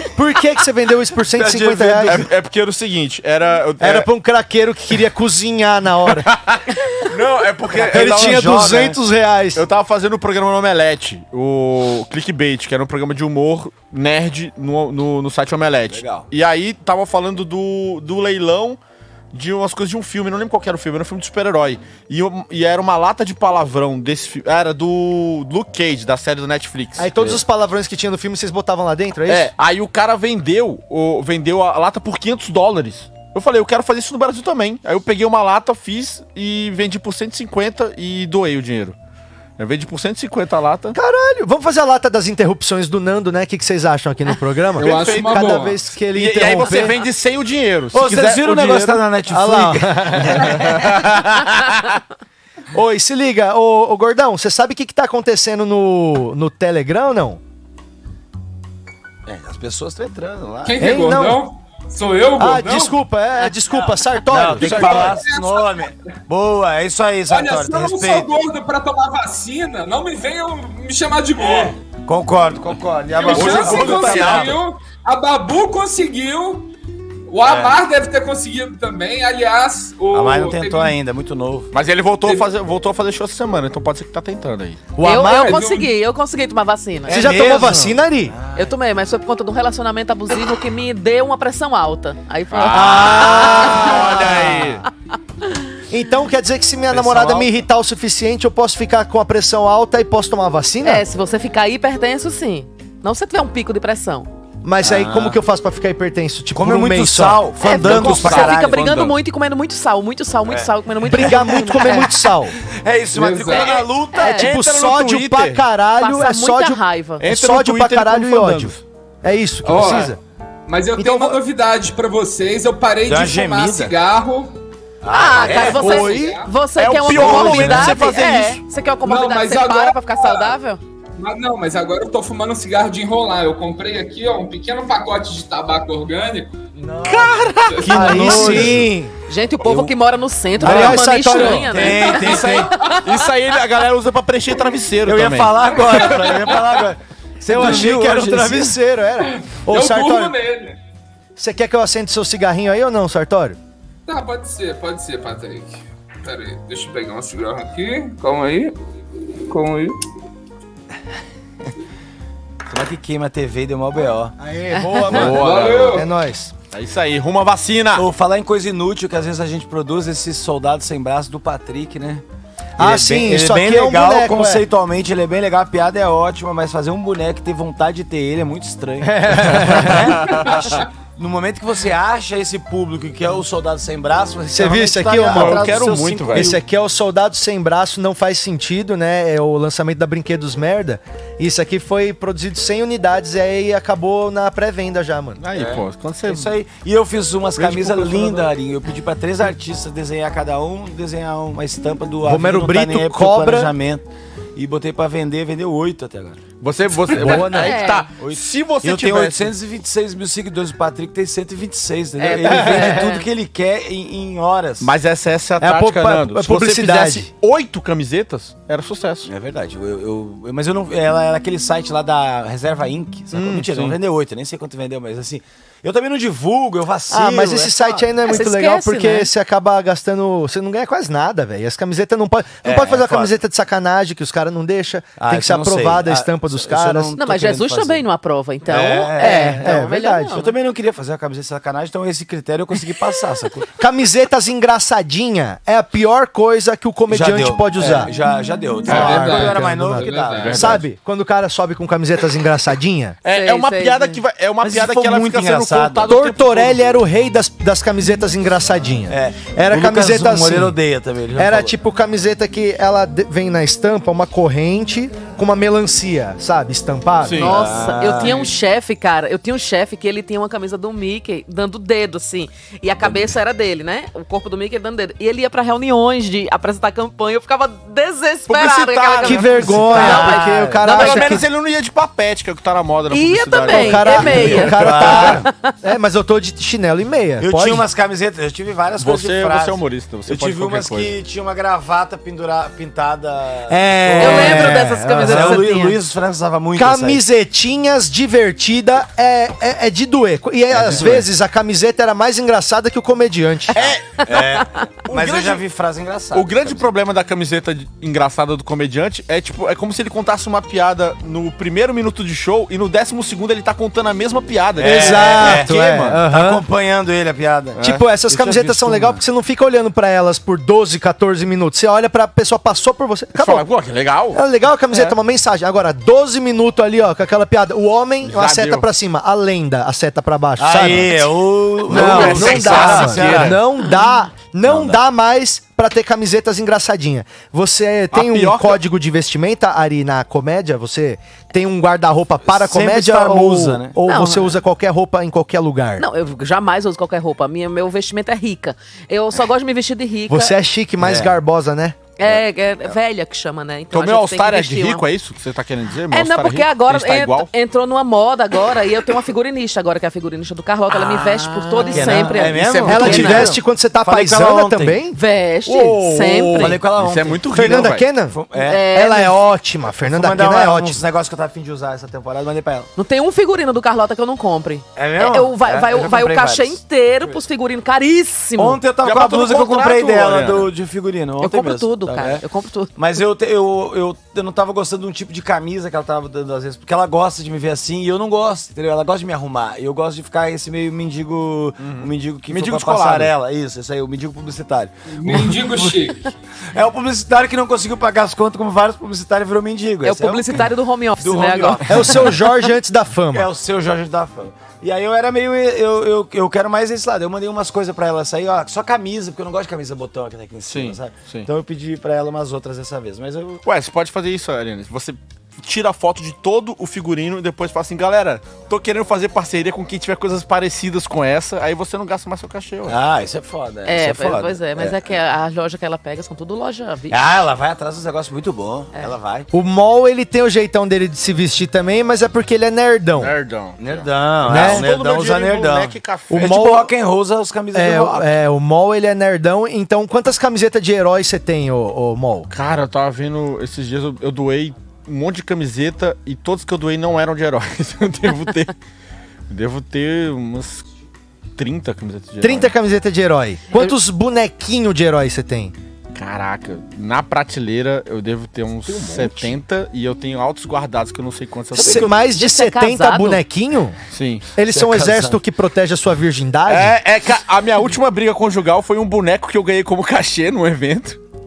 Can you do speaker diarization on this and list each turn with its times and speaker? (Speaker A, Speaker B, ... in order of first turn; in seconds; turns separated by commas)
Speaker A: 0.1-2.3, Speaker B: 1.3-2.2, Speaker C: 1.9-4.1, Speaker A: 3.8-6.3, Speaker C: 6.3-8.8, Speaker B: 7.7-9.0, Speaker A: 7.9-9.7, Speaker C: 9.6-18.8, Speaker B: 15.9-16.3, Speaker C: 19.3-27.1, Speaker A: 27.0-29.5, Speaker C: 29.3-39.0, Speaker C: 39.6-41.0, Speaker A: 40.9-47.0, Speaker D: 44.8-45.8, Speaker C: 44.8-49.0, Speaker B: 47.9-50.8, Speaker A: 49.3-50.6, Speaker C: 50.5-51.9, Speaker A: 52.7-57.4, Speaker B: 59.3-60.9, Speaker D: 60.6-63.0, Speaker A: 60.8-61.4, Speaker A: 62.4-65.2, Speaker B: 64.3-68.3, Speaker C: 64.6-65.1, Speaker D: 64.7-65.7, Speaker D: 67.3-71.8, Speaker B: 71.4-74.6, Speaker D: 73.1-76.7, Speaker C: 73.3-74.6, Speaker D: 77.3-81.0, Speaker B: 77.4-77.8, Speaker B: 80.1-81.7, Speaker C: 81.7-84.8, Speaker A: 85.0-85.6, Speaker E: 85.0-87.3, Speaker D: 85.3-85.9, Speaker B: 87.1-88.8, Speaker A: 87.1-88.3, Speaker E: 88.5-94.2, Speaker C: 92.5-94.8, Speaker A: 92.7-94.8, Speaker A: 95.9-101.0, Speaker B: 96.9-97.5, Speaker E: 100.8-104.3, Speaker A: 104.6-108.2, Speaker B: 104.8-105.4, Speaker B: 106.5-108.9, Speaker E: 107.6-112.1, Speaker C: 107.7-109.1, Speaker B: 110.5-112.0, Speaker A: 111.0-112.5, Speaker B: 112.8-114.4, Speaker D: 113.1-113.8, Speaker E: 114.1-114.5, Speaker A: 114.1-120.2, Speaker C: 114.4-115.6, Speaker E: 116.0-117.2, Speaker C: 117.2-118.8, Speaker D: 119.7-120.1, Speaker D: 120.7-124.5, Speaker A: 121.0-121.4, Speaker B: 123.0-123.9, Speaker B: 125.0-126.1, Speaker E: 125.1-130.8, Speaker D: 125.3-126.5, Speaker A: 125.7-126.5, Speaker C: 126.8-128.6, Speaker A: 127.1-128.0, Speaker B: 127.2-127.8, Speaker D: 129.1-130.5, Speaker D: 131.2-136.6, Speaker B: 136.8-138.9, Speaker C: 137.0-138.8, Speaker D: 137.7-138.2, Speaker A: 137.9-139.1, Speaker E: 139.3-143.0, Speaker A: 140.6-142.0, Speaker B: 140.6-141.0, Speaker B: 141.5-142.7, Speaker C: 142.3-146.0, Speaker D: 142.3-142.9, Speaker B: 145.1-148.8, Speaker D: 146.0-146.6, Speaker A: 147.5-150.4, Speaker D: 149.5-150.8, Speaker A: 151.4-153.6, Speaker D: 154.1-158.8, Speaker D: 159.5-160.0, Speaker B: 162.7-164.3, Speaker A: 164.4-166.5, Speaker E: 164.8-165.1, Speaker C: 164.9-166.1, Speaker D: 165.3-166.1, Speaker C: 166.7-168.1, Speaker B: 167.9-172.2, Speaker A: 172.8-174.7, Speaker B: 172.8-186.6, Speaker A: 179.0-180.2, Speaker C: 179.5-180.6, Speaker A: 184.5-195.4, Speaker C: 185.3-186.6, Speaker C: 195.4-196.5, Speaker B: 195.5-206.4, Speaker C: 197.6-198.5, Speaker A: 202.2-203.7, Speaker C: 206.6-209.5, Speaker A: 207.1-207.8, Speaker E: 207.5-208.1, Speaker B: 208.2-214.9, Speaker E: 212.2-213.3, Speaker A: 212.5-213.1, Speaker C: 214.8-219.3, Speaker A: 215.6-217.3, Speaker B: 219.2-227.8, Speaker A: 223.4-223.9, Speaker C: 223.4-223.9, Speaker A: 227.1-237.2, Speaker E: 228.2-229.3, Speaker B: 232.6-233.3, Speaker B: 235.2-238.0, Speaker E: 237.2-240.5, Speaker B: 238.7-243.7, Speaker A: 239.2-240.4, Speaker A: 243.8-248.1, Speaker B: 247.1-250.8, Speaker D: 248.9-250.7, Speaker A: 248.9-253.2, Speaker C: 250.0-250.8, Speaker C: 253.2-256.9, Speaker E: 253.3-254.2, Speaker B: 254.6-256.1, Speaker A: 256.1-260.8, Speaker B: 259.1-261.8, Speaker A: 261.4-267.5, Speaker C: 267.2-267.6, Speaker E: 267.4-281.4, Speaker B: 267.4-268.5, Speaker C: 278.5-284.8, Speaker A: 279.2-281.5, Speaker E: 283.1-285.7, Speaker A: 283.7-287.9, Speaker B: 284.3-285.5, Speaker B: 287.4-297.2, Speaker C: 289.0-291.1, Speaker A: 293.7-295.7, Speaker E: 294.2-296.0, Speaker A: 296.8-303.9, Speaker B: 300.7-301.3, Speaker C: 303.7-304.2, Speaker B: 304.2-306.9, Speaker C: 305.1-305.6, Speaker C: 306.3-316.2, Speaker B: 314.8-319.2, Speaker A: 314.8-316.6, Speaker C: 317.8-318.8, Speaker A: 317.8-323.6, Speaker C: 323.4-324.4, Speaker A: 324.3-331.3, Speaker C: 328.2-328.9, Speaker B: 330.6-333.6, Speaker A: 331.9-346.1, Speaker C: 331.9-333.6, Speaker B: 334.7-335.0, Speaker C: 338.1-338.8, Speaker B: 342.5-344.0, Speaker E: 344.1-344.6, Speaker E: 346.0-350.6, Speaker A: 350.3-352.0, Speaker B: 351.0-351.3, Speaker E: 352.2-355.0, Speaker C: 353.9-357.5, Speaker E: 356.1-363.5, Speaker C: 360.9-362.4, Speaker B: 361.8-365.0, Speaker A: 362.8-366.8, Speaker E: 365.1-366.8, Speaker B: 366.6-368.9, Speaker C: 366.9-368.1, Speaker A: 367.5-371.0, Speaker E: 368.6-369.4, Speaker B: 370.0-372.9, Speaker E: 373.0-378.8, Speaker B: 375.0-377.4, Speaker B: 378.6-382.4, Speaker C: 379.0-380.7, Speaker E: 381.4-382.9, Speaker B: 383.0-395.9, Speaker C: 391.8-393.3, Speaker D: 395.1-396.3, Speaker B: 396.7-402.4, Speaker E: 400.0-402.1, Speaker A: 401.9-403.5, Speaker B: 403.3-413.6, Speaker C: 410.7-411.5, Speaker C: 413.6-423.0, Speaker B: 422.9-425.0, Speaker E: 423.9-427.5, Speaker B: 427.1-429.5, Speaker A: 429.5-433.3, Speaker C: 433.2-436.6, Speaker B: 433.8-438.3, Speaker A: 434.5-434.9, Speaker A: 436.3-436.9, Speaker A: 437.7-442.5, Speaker C: 442.5-448.7, Speaker C: 449.5-450.9, Speaker C: 451.6-452.7, Speaker A: 452.4-455.8, Speaker C: 456.1-462.1, Speaker B: 458.9-459.5, Speaker A: 461.7-464.0, Speaker B: 461.8-462.1, Speaker E: 462.2-463.4, Speaker C: 464.1-464.5, Speaker A: 464.6-467.0, Speaker B: 464.7-465.4, Speaker C: 466.7-471.2